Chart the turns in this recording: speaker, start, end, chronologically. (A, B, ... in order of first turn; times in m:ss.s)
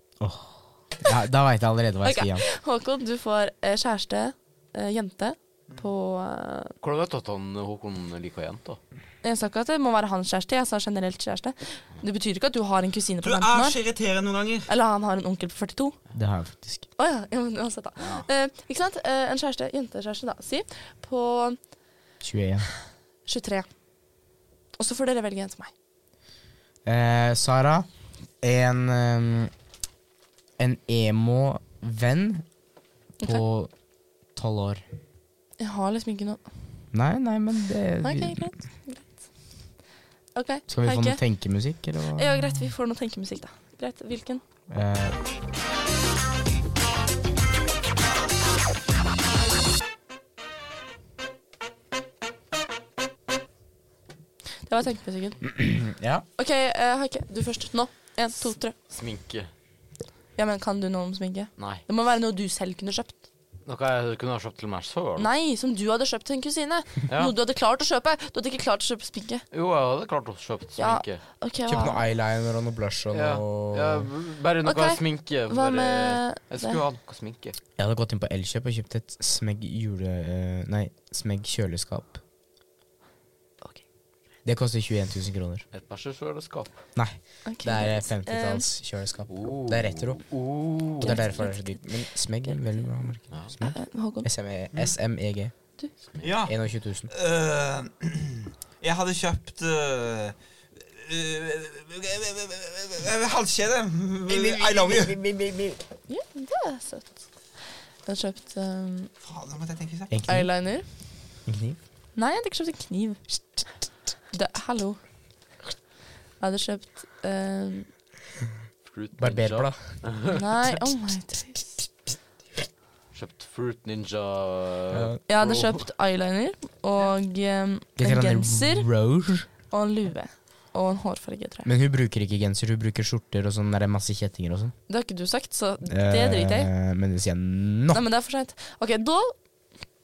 0:00.2-0:02.4 A
0:02.0-0:06.7 B
0:06.8-0:08.8 C
0:09.2-0:13.8 B
0:13.2-0:14.7 D
0:14.7-0:16.0 B
0:16.1-0:16.8 A
0:17.0-0:21.6 B
0:22.2-0:22.7 A
0:23.2-0:23.7 B
0:24.8-0:25.7 B
0:26.8-0:27.8 A
0:28.4-0:29.5 A
0:30.6-0:32.4 A
0:33.2-0:33.7 A
0:34.3-0:34.8 A
0:35.6-0:36.4 B
0:36.9-0:38.4 A
0:38.0-0:39.1 B
0:40.3-0:41.2 B
0:40.7-0:42.6 A
0:42.2-0:44.4 B
0:44.7-0:45.1 A
0:54.6-0:55.4 B
0:55.4-0:56.2 A
0:56.4-0:58.7 B
0:58.9-0:59.5 C
1:00.4-1:03.2 B
1:01.6-1:01.8 C
1:03.6-1:05.3 C
1:05.2-1:09.4 B
1:07.1-1:07.3 C
1:09.5-1:11.2 C
1:10.8-1:12.0 B
1:11.7-1:14.1 A
1:13.1-1:17.6 C
1:14.6-1:16.8 B
1:17.8-1:22.2 A
1:24.4-1:25.6 A
1:25.7-1:26.7 C
1:27.0-1:30.2 A
1:27.4-1:28.6 B
1:29.3-1:31.2 C
1:31.0-1:35.5 A
1:31.0-1:31.8 B
1:33.6-1:34.3 B
1:36.2-1:45.2 D
1:36.4-1:37.1 A
1:44.3-1:45.8 A
1:46.1-1:47.2 B
1:48.0-1:49.1 B
1:49.2-1:50.1 D
1:50.1-1:50.5 A
1:50.3-1:50.9 B
1:51.4-1:51.8 A
1:52.2-1:53.2 B
1:54.3-1:55.0 B
1:56.4-1:57.9 B
1:58.9-2:00.4 C
1:59.2-1:59.8 A
2:00.3-2:01.8 B
2:03.1-2:05.8 C
2:04.9-2:05.2 A
2:05.3-2:08.9 B
2:08.0-2:09.5 A
2:09.7-2:11.7 B
2:11.6-2:14.7 A
2:14.9-2:16.7 B
2:15.8-2:18.0 A
2:17.9-2:19.3 B